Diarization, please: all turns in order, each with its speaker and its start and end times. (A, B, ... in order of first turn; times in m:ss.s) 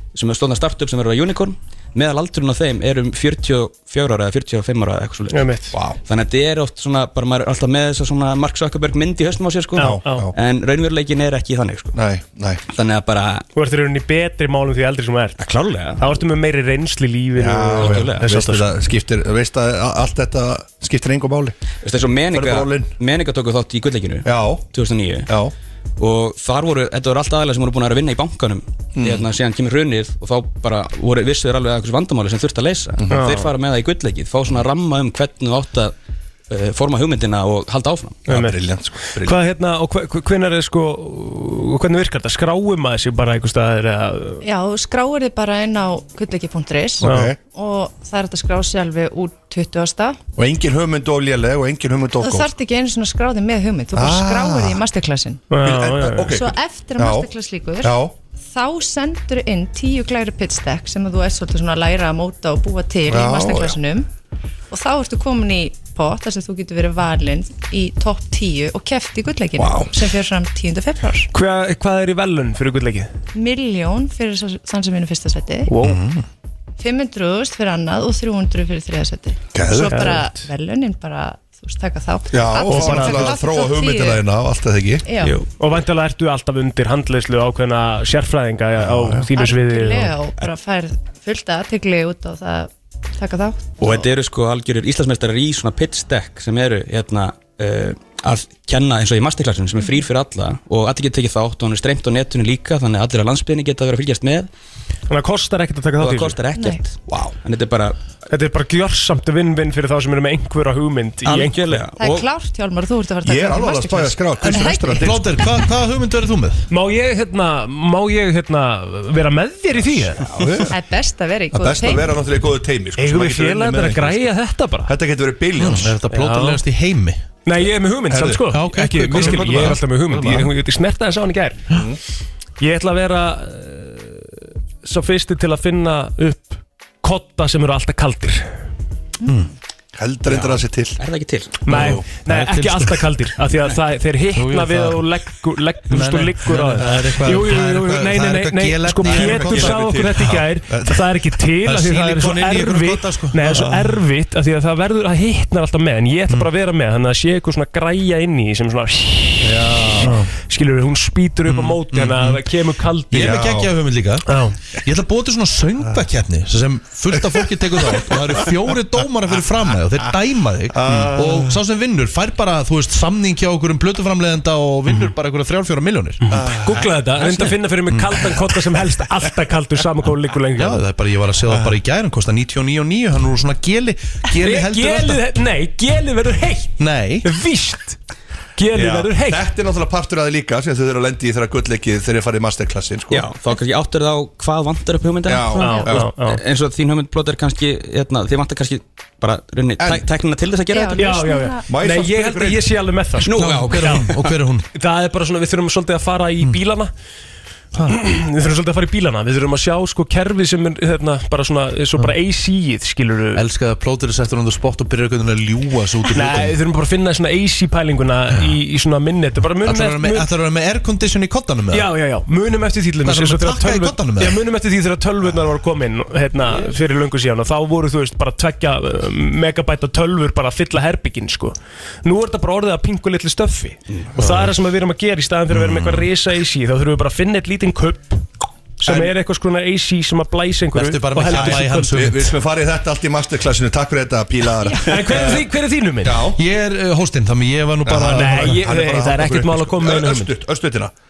0:00.1-0:05.4 A
0:05.3-0:05.7 B
0:05.7-0:06.0 C
0:06.0-0:12.0 A
0:09.8-0:10.3 B
0:09.8-0:10.3 C
0:11.9-0:12.6 C
0:12.7-0:13.4 A
0:13.5-0:15.4 B
0:15.4-0:16.1 A
0:16.0-0:18.7 B
0:17.4-0:21.5 C
0:17.8-0:18.3 A
0:21.8-0:25.3 A
0:22.3-0:23.0 C
0:24.2-0:24.7 C
0:25.3-0:25.5 C
0:26.0-0:35.9 A
0:29.0-0:29.3 C
0:33.0-0:33.3 C
0:33.1-0:33.5 B
0:36.5-0:38.3 A
0:38.3-0:38.6 B
0:38.3-0:39.4 C
0:39.1-0:44.4 B
0:44.4-0:50.2 D
0:47.0-0:47.4 C
0:47.0-0:47.3 B
0:50.4-0:52.5 C
0:52.2-0:55.6 D
0:53.9-0:54.8 C
0:55.5-0:56.4 B
0:55.6-0:57.3 C
0:56.3-1:04.1 D
0:57.8-0:58.2 C
1:03.1-1:03.8 C
1:04.7-1:11.3 D
1:09.6-1:09.9 C
1:11.3-1:13.1 B
1:13.3-1:15.7 D
1:15.7-1:16.0 B
1:15.8-1:16.2 E
1:16.8-1:24.2 D
1:19.5-1:20.3 C
1:22.3-1:25.0 C
1:22.6-1:23.4 B
1:25.1-1:25.3 D
1:25.2-1:25.5 A
1:25.6-1:30.2 B
1:28.8-1:29.3 C
1:29.3-1:34.0 D
1:33.8-1:44.5 A
1:45.1-1:46.4 B
1:46.0-1:48.0 A
1:46.5-1:46.8 D
1:47.1-1:47.4 C
1:48.3-1:51.8 B
1:51.2-1:52.3 A
1:52.0-1:55.0 D
1:53.2-1:55.4 C
1:54.4-1:56.6 E
1:56.7-2:00.2 B
2:00.1-2:00.8 C
2:00.7-2:02.1 D
2:01.5-2:04.2 C
2:03.0-2:04.9 B
2:04.9-2:06.0 C
2:05.6-2:07.2 E
2:06.1-2:06.6 B
2:07.4-2:11.6 B
2:08.1-2:08.5 C
2:08.5-2:10.5 E
2:09.1-2:10.4 C
2:11.7-2:12.0 C
2:12.6-2:18.5 B
2:19.2-2:19.5 E
2:19.9-2:21.0 C
2:20.3-2:21.6 A
2:21.6-2:23.1 E
2:21.6-2:43.5 B
2:24.3-2:25.0 E
2:25.9-2:30.4 E
2:29.0-2:30.1 C
2:30.7-2:31.0 C
2:31.6-2:33.9 E
2:39.4-2:40.1 C
2:40.0-2:40.3 E
2:41.5-2:42.4 E
2:43.1-2:56.3 E
2:43.1-2:43.7 C
2:44.2-2:44.6 B
2:47.1-2:48.5 C
2:50.7-2:51.6 C
2:56.2-3:00.8 B
2:56.3-2:57.0 C
3:00.6-3:05.2 E
3:01.5-3:01.7 C
3:04.3-3:08.0 B
3:06.8-3:07.3 E
3:08.6-3:09.4 B
3:08.7-3:13.2 C
3:13.1-3:21.2 A
3:15.2-3:16.1 C
3:15.6-3:16.4 B
3:19.8-3:20.0 C
3:20.7-3:21.7 D
3:21.0-3:24.1 B
3:21.7-3:22.7 C
3:23.2-3:24.3 A
3:23.3-3:24.6 E
3:24.7-3:26.9 B
3:27.8-3:33.4 B
3:33.3-3:36.6 E
3:36.1-3:40.3 B
3:39.6-3:41.9 E
3:41.7-3:58.2 B
3:43.0-3:44.4 E
3:46.5-3:46.8 E
3:54.2-3:54.5 E
3:55.6-3:56.0 E
3:58.8-4:02.0 B
3:58.8-3:59.1 C
4:00.7-4:02.4 E
4:01.3-4:05.4 C
4:04.8-4:06.3 B
4:06.0-4:06.4 C
4:06.4-4:08.6 E
4:07.8-4:10.9 C
4:08.0-4:10.3 B